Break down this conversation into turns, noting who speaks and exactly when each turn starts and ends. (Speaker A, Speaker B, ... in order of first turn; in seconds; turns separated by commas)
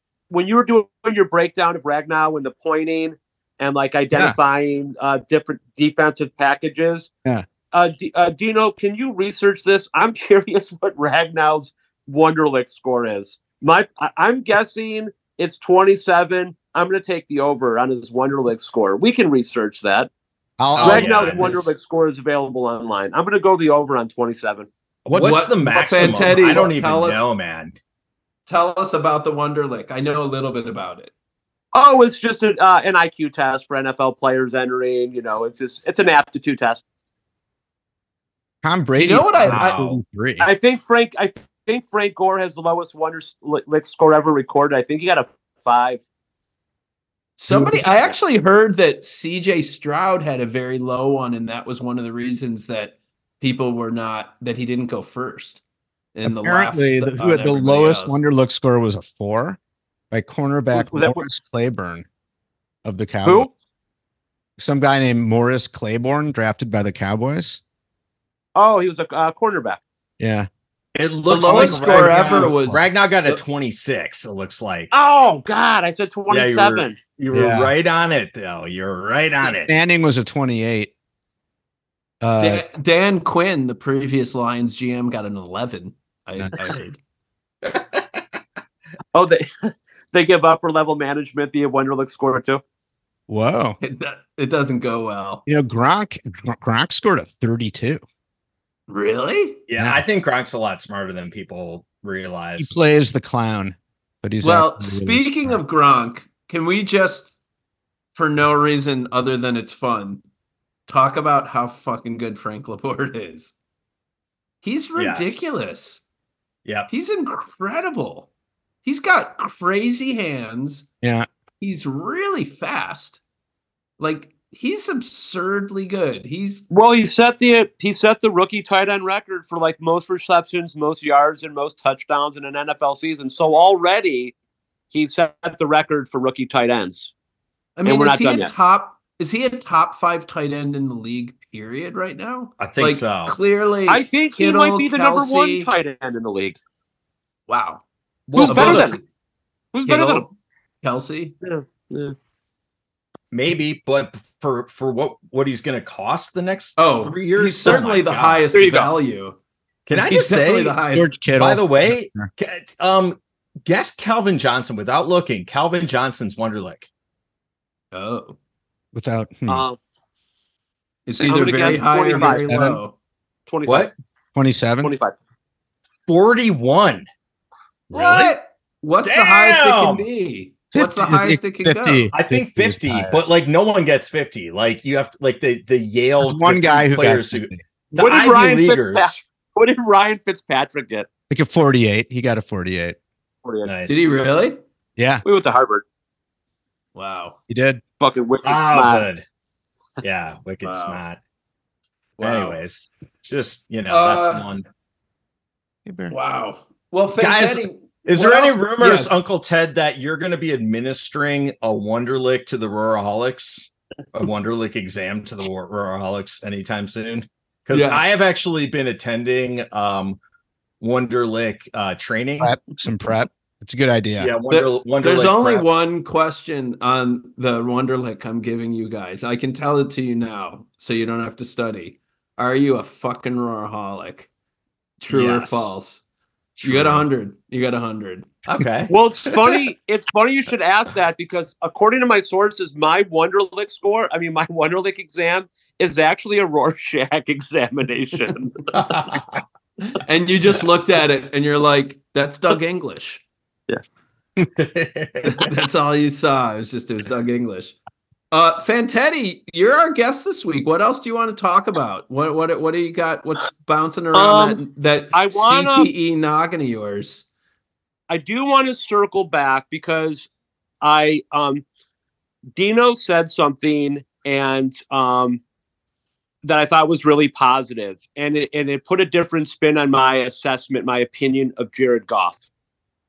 Speaker A: 0.3-7.1, Speaker A: 7.7-20.1, Speaker B: 20.6-21.6, Speaker C: 20.8-21.7, Speaker A: 20.8-24.7, Speaker C: 25.1-27.8, Speaker B: 25.1-25.4, Speaker D: 25.1-27.2, Speaker B: 25.9-26.3, Speaker D: 28.5-31.1, Speaker A: 31.7-36.8, Speaker B: 38.6-40.5, Speaker D: 39.0-39.9, Speaker C: 39.5-39.8, Speaker A: 40.4-46.0, Speaker D: 47.4-55.6, Speaker B: 47.5-48.1, Speaker D: 56.1-58.2, Speaker B: 56.3-59.6, Speaker B: 60.1-62.0, Speaker A: 60.7-61.3, Speaker B: 62.8-63.5, Speaker B: 64.6-67.6, Speaker A: 68.5-69.8, Speaker B: 70.2-70.5, Speaker C: 71.0-74.9, Speaker D: 71.3-73.4, Speaker B: 71.4-72.8, Speaker A: 74.9-77.0, Speaker C: 76.3-79.7, Speaker B: 77.3-77.7, Speaker B: 79.6-80.9, Speaker B: 82.2-82.6, Speaker D: 82.4-87.0, Speaker B: 86.4-86.7, Speaker C: 87.6-88.2, Speaker A: 89.1-92.6, Speaker B: 93.3-93.8, Speaker D: 93.8-95.4, Speaker B: 95.5-98.0, Speaker D: 98.9-99.6, Speaker C: 99.7-102.8, Speaker B: 102.6-105.6, Speaker D: 104.4-107.3, Speaker D: 108.1-110.2, Speaker D: 110.9-113.5, Speaker D: 114.6-116.0, Speaker C: 115.0-115.5, Speaker D: 116.9-118.3, Speaker D: 118.8-120.9, Speaker B: 121.0-121.3, Speaker D: 121.6-123.2, Speaker D: 124.0-126.7, Speaker A: 126.7-134.3, Speaker A: 134.9-137.1, Speaker D: 137.8-145.7, Speaker A: 137.9-138.5, Speaker C: 142.6-143.4, Speaker A: 143.9-146.6, Speaker D: 147.5-147.8, Speaker C: 148.3-149.0, Speaker A: 148.3-148.9, Speaker D: 148.4-149.0, Speaker A: 149.7-150.3, Speaker C: 149.9-150.2, Speaker D: 150.8-151.4, Speaker A: 151.4-152.1, Speaker C: 153.3-158.5, Speaker D: 156.8-159.4, Speaker A: 158.5-158.9, Speaker C: 159.9-160.8, Speaker D: 159.9-161.2, Speaker B: 160.9-162.3, Speaker C: 161.3-166.9, Speaker D: 167.9-168.4, Speaker B: 168.9-169.6, Speaker A: 169.5-169.8, Speaker D: 171.1-172.9, Speaker B: 171.1-172.8, Speaker A: 171.3-172.6, Speaker A: 173.5-173.9, Speaker C: 173.7-173.9, Speaker B: 174.3-174.9, Speaker A: 174.8-175.1, Speaker C: 176.1-177.1, Speaker C: 177.9-178.4, Speaker D: 177.9-182.1, Speaker C: 179.1-180.1, Speaker B: 180.7-183.2, Speaker C: 182.1-189.2, Speaker B: 186.2-187.6, Speaker A: 187.9-191.1, Speaker B: 191.3-193.0, Speaker A: 193.4-193.7, Speaker C: 193.6-194.1, Speaker D: 193.9-194.6, Speaker B: 195.0-195.2, Speaker A: 195.2-195.8, Speaker D: 196.9-197.4, Speaker B: 197.5-197.8, Speaker A: 198.0-199.1, Speaker C: 198.4-199.2, Speaker C: 200.0-201.2, Speaker D: 200.6-201.0, Speaker D: 202.2-202.6, Speaker C: 202.2-204.7, Speaker D: 203.9-204.5, Speaker B: 205.9-206.2, Speaker D: 206.1-209.1, Speaker C: 207.2-220.2, Speaker D: 217.7-218.2, Speaker C: 220.8-222.6, Speaker B: 222.4-224.3, Speaker C: 224.2-225.6, Speaker D: 224.5-234.3, Speaker D: 235.0-236.0, Speaker C: 235.1-235.8, Speaker C: 236.6-237.1, Speaker D: 236.6-238.7, Speaker C: 238.6-238.9, Speaker A: 238.9-248.6, Speaker C: 248.7-249.4, Speaker D: 250.1-253.2, Speaker C: 254.6-255.5, Speaker D: 255.3-257.8, Speaker D: 258.3-267.2, Speaker A: 264.1-264.6, Speaker A: 265.1-265.9, Speaker A: 268.1-270.3, Speaker A: 270.8-271.6, Speaker A: 272.6-275.4, Speaker A: 276.4-282.4